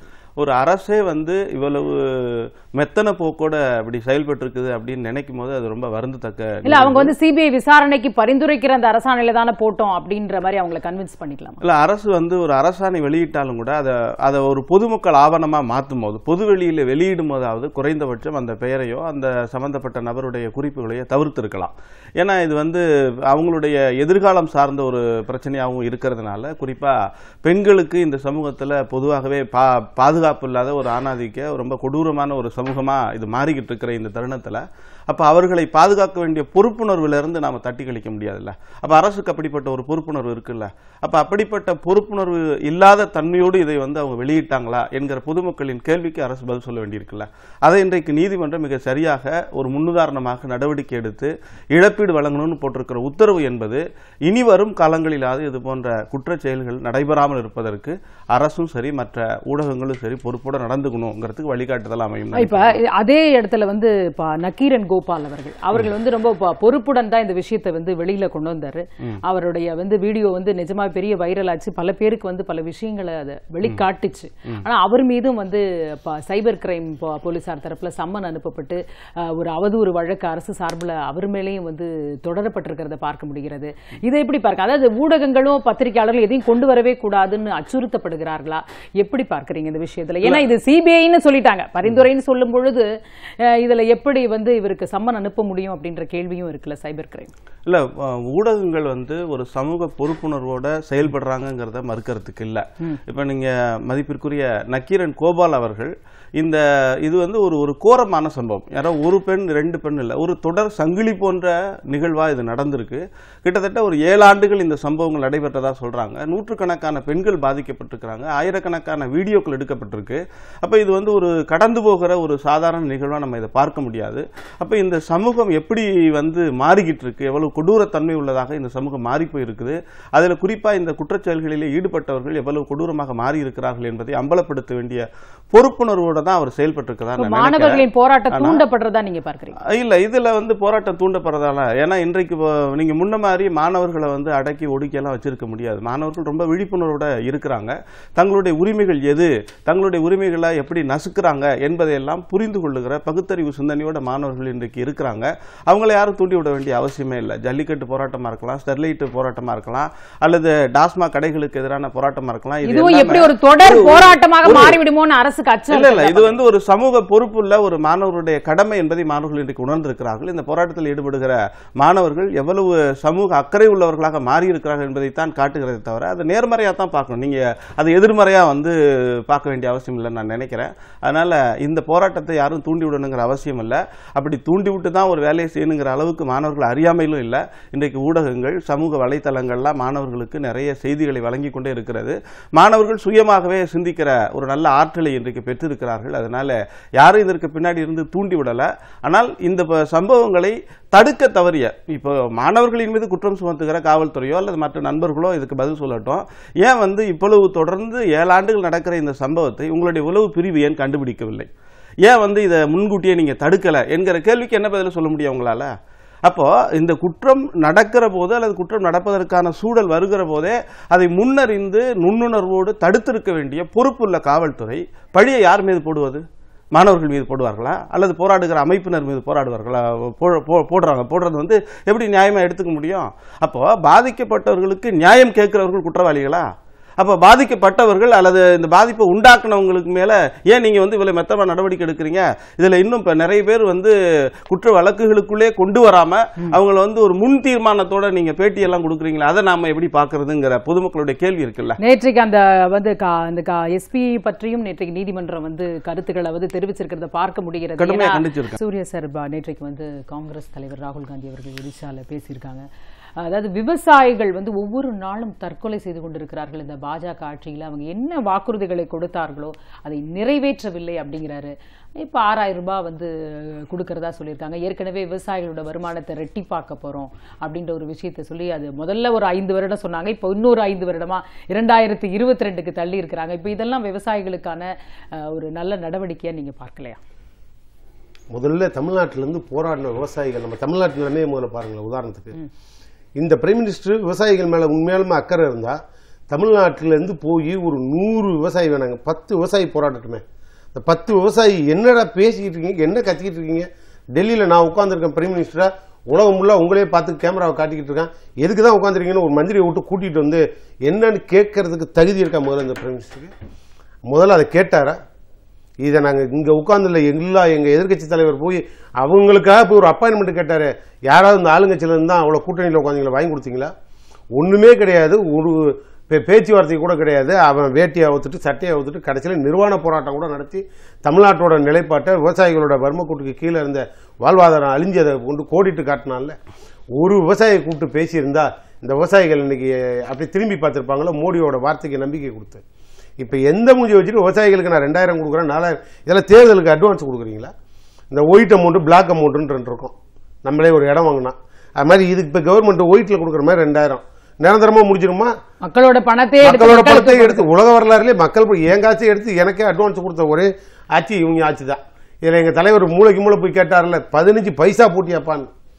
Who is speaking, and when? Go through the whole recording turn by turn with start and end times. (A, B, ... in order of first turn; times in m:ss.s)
0:00.4-0:07.1 A
0:06.6-0:11.6 B
0:11.6-1:02.8 A
1:02.4-1:32.9 B
1:33.4-1:37.3 B
1:37.7-2:18.6 A
2:17.2-2:19.6 B
2:19.7-2:44.8 A
2:42.6-2:46.4 B
2:45.7-3:31.5 A
3:32.0-3:35.7 A
3:36.3-3:46.2 A
3:46.8-4:11.8 A
4:11.8-4:22.7 B
4:17.8-4:18.6 A
4:23.2-4:47.0 B
4:48.3-4:52.4 C
4:53.2-4:55.8 C
4:56.3-5:00.2 C
5:00.7-5:13.3 C
5:14.1-5:15.0 C
5:15.8-5:23.7 C
5:24.4-5:36.4 C
5:37.0-5:42.6 C
5:43.2-5:47.5 C
5:48.1-5:55.3 C
5:55.6-5:57.5 B
5:56.4-6:05.5 C